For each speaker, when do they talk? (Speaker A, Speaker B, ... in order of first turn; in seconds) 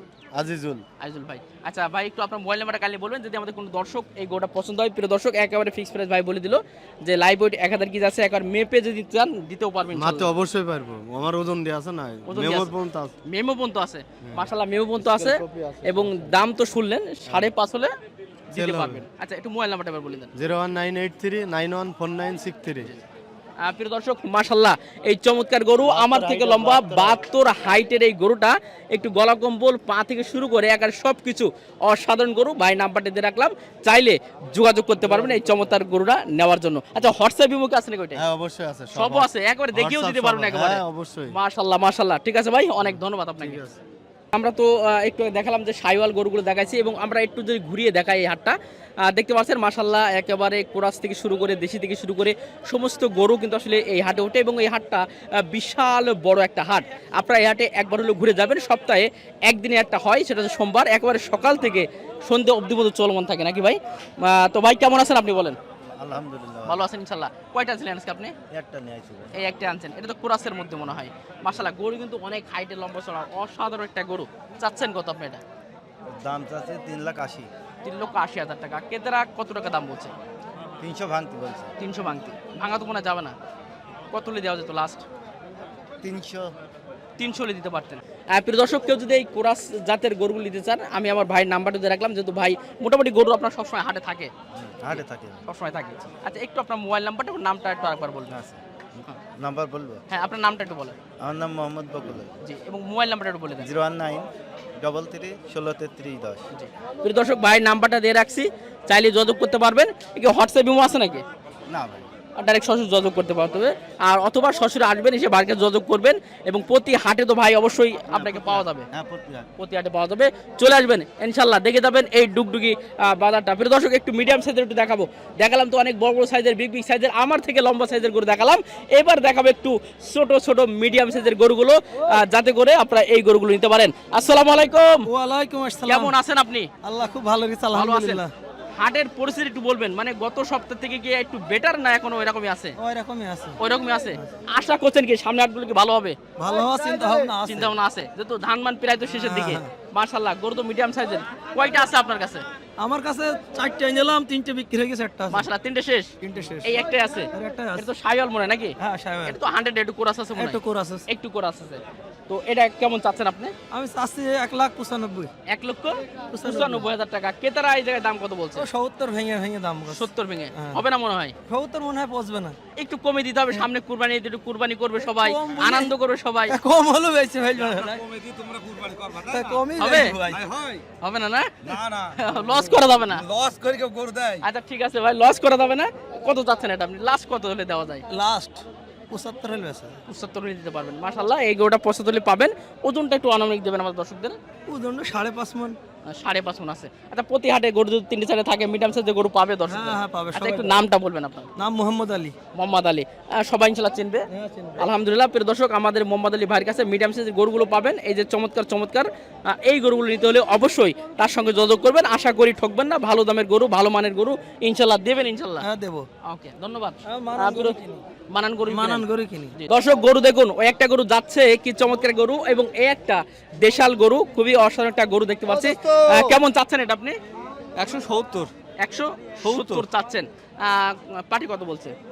Speaker A: 0.3-0.8, 9.9-13.1, 14.2-16.4, 18.5-19.0, 20.3-22.9, 25.8-27.2, 35.0-35.7, 38.1-41.4, 42.8-43.8, 66.0-66.8, 68.5-69.4, 76.1-77.5, 80.8-81.7, 86.0-86.5, 94.5-95.4, 98.3-98.6, 99.4-100.0, 101.2-102.3, 103.6-104.2, 104.8-106.4, 111.7-112.1, 118.1-119.5, 177.7-180.8, 181.6-182.3
Speaker B: 1.0-10.3, 12.3-12.7, 13.2-17.9, 18.5-20.3, 23.6-38.2, 38.9-43.6, 44.3-65.6, 66.7-68.3, 69.3-75.4, 77.8-80.1, 81.8-83.3, 84.1-85.0, 87.2-94.3, 94.9-98.3, 100.1-101.0, 102.4-103.7, 106.5-111.2, 112.4-118.9, 119.6-135.1, 135.8-136.7, 137.7-138.2, 138.7-142.8, 143.6-146.2, 147.4-152.4, 155.3-163.5, 165.5-168.7, 169.9-171.3, 172.8-176.6, 179.8-180.2, 181.0-183.2, 184.4-188.0, 190.1-194.3, 196.1-201.5, 202.5-215.7, 216.3-217.8, 218.3-227.2, 228.8-231.9
Speaker C: 135.1-136.2, 136.8-138.3, 142.8-143.6, 146.4-147.8, 149.1-149.7, 152.8-155.5, 156.2-156.8, 157.3-157.8, 158.8-159.4, 160.3-161.1, 163.7-165.3, 166.3-166.8, 168.6-170.8, 171.5-172.6, 175.2-175.9, 176.5-178.0, 179.2-180.4, 182.8-184.4, 188.1-190.0, 194.7-195.8, 199.7-200.9, 201.6-202.3, 204.3-204.8, 215.6-216.1, 217.1-218.0, 218.7-219.5, 225.5-226.4, 227.8-228.5, 229.4-229.8